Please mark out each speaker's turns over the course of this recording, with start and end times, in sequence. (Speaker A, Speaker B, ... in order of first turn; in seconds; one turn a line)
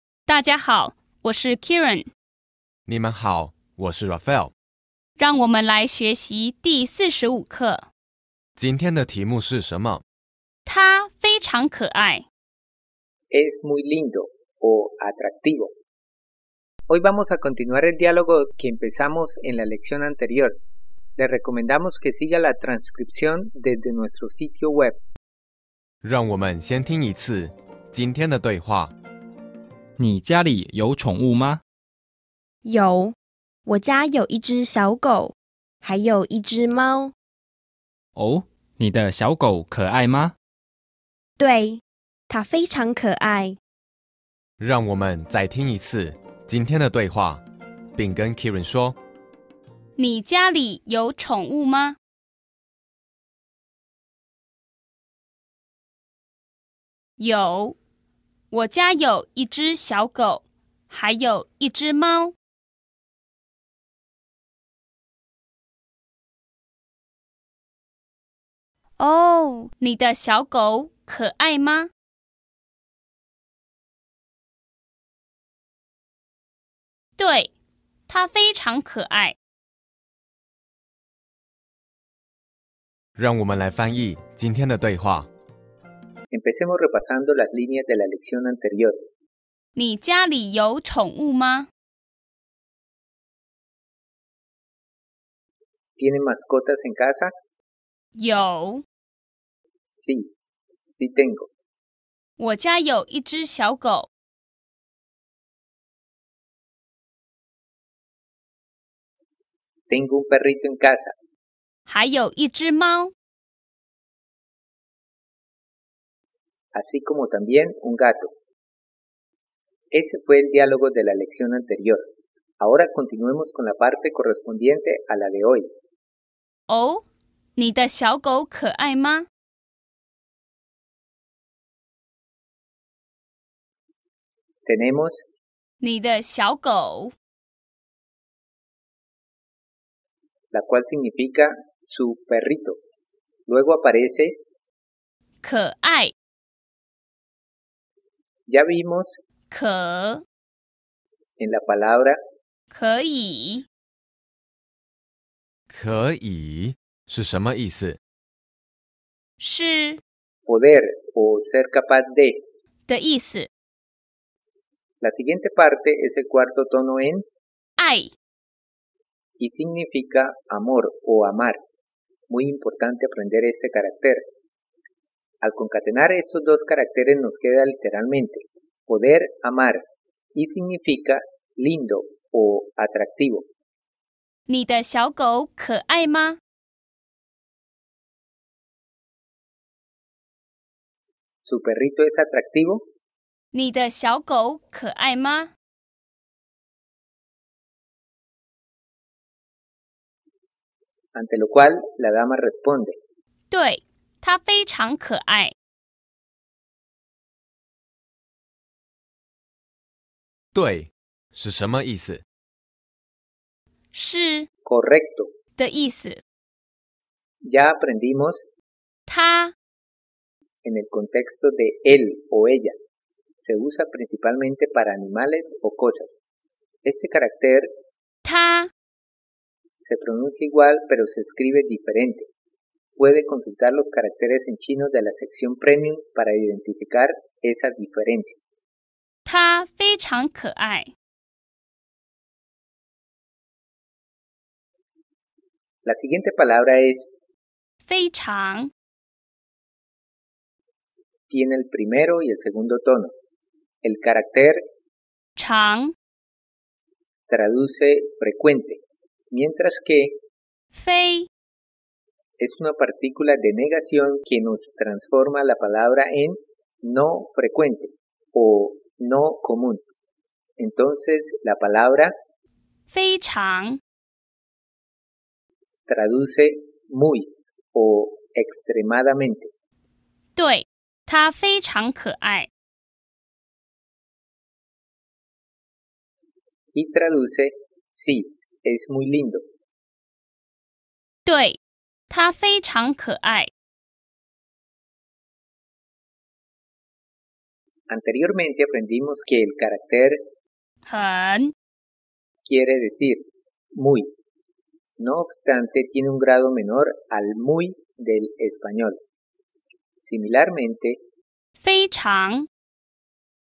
Speaker A: 0.3-2.1
Speaker B: 2.9-4.5
Speaker A: 5.2-7.8
Speaker B: 8.6-10.0
Speaker A: 10.7-12.2
Speaker C: 13.3-15.7
Speaker C: 16.9-20.6
Speaker C: 21.2-25.0
Speaker B: 26.0-28.9
Speaker D: 30.0-31.6
Speaker E: 32.7-33.1
Speaker E: 33.7-37.1
Speaker D: 38.2-40.3
Speaker E: 41.4-43.6
Speaker B: 44.6-47.4
Speaker B: 48.0-49.0
Speaker A: 50.0-52.0
Speaker A: 57.2-57.8
Speaker A: 58.5-62.3
Speaker A: 69.0-71.9
Speaker A: 77.2-77.5
Speaker A: 78.1-79.3
Speaker B: 83.2-85.3
Speaker C: 86.3-89.0
Speaker A: 89.8-91.7
Speaker C: 96.0-97.3
Speaker A: 98.2-98.8
Speaker C: 99.9-100.3
Speaker C: 100.9-101.5
Speaker A: 102.4-104.1
Speaker C: 109.9-111.1
Speaker A: 111.9-113.1
Speaker C: 116.7-118.3
Speaker C: 119.9-122.0
Speaker C: 122.6-125.7
Speaker A: 126.7-127.0
Speaker A: 127.6-129.2
Speaker C: 134.7-135.2
Speaker A: 135.8-137.1
Speaker C: 140.5-142.8
Speaker C: 143.5-144.3
Speaker A: 145.4-146.1
Speaker C: 148.5-149.2
Speaker A: 149.5-150.2
Speaker C: 151.4-152.2
Speaker A: 152.7-153.6
Speaker B: 155.7-158.0
Speaker A: 159.4-160.0
Speaker C: 160.4-162.4
Speaker A: 162.9-163.5
Speaker C: 165.0-167.2
Speaker A: 167.8-168.1
Speaker C: 169.4-171.6
Speaker C: 172.3-174.2
Speaker C: 175.4-179.8
Speaker C: 180.3-183.4
Speaker A: 184.5-186.4
Speaker C: 191.4-192.8
Speaker A: 193.5-195.5
Speaker C: 201.1-202.9
Speaker A: 203.5-205.5
Speaker B: 210.5-212.2
Speaker A: 213.9-214.5
Speaker C: 214.7-215.3
Speaker A: 215.6-216.2
Speaker C: 217.4-218.4
Speaker A: 219.1-219.5
Speaker C: 220.6-222.8
Speaker C: 223.4-226.2
Speaker C: 226.8-227.7
Speaker A: 228.2-228.7
Speaker C: 229.8-232.3
Speaker C: 233.0-238.4
Speaker A: 239.2-240.9
Speaker C: 245.8-247.1
Speaker A: 247.9-248.7
Speaker C: 251.3-253.1
Speaker C: 253.8-254.6
Speaker A: 255.4-255.9
Speaker C: 257.3-258.8
Speaker C: 259.3-260.2
Speaker A: 260.7-261.3
Speaker C: 262.4-269.8
Speaker C: 270.6-272.1
Speaker A: 272.9-273.8
Speaker C: 275.9-279.5
Speaker A: 280.4-282.5
Speaker C: 286.8-289.4
Speaker A: 291.2-291.6
Speaker A: 292.1-293.5
Speaker C: 297.9-300.2
Speaker A: 300.9-301.5
Speaker C: 302.4-304.1
Speaker C: 305.0-309.0
Speaker C: 310.0-311.0
Speaker A: 311.6-312.5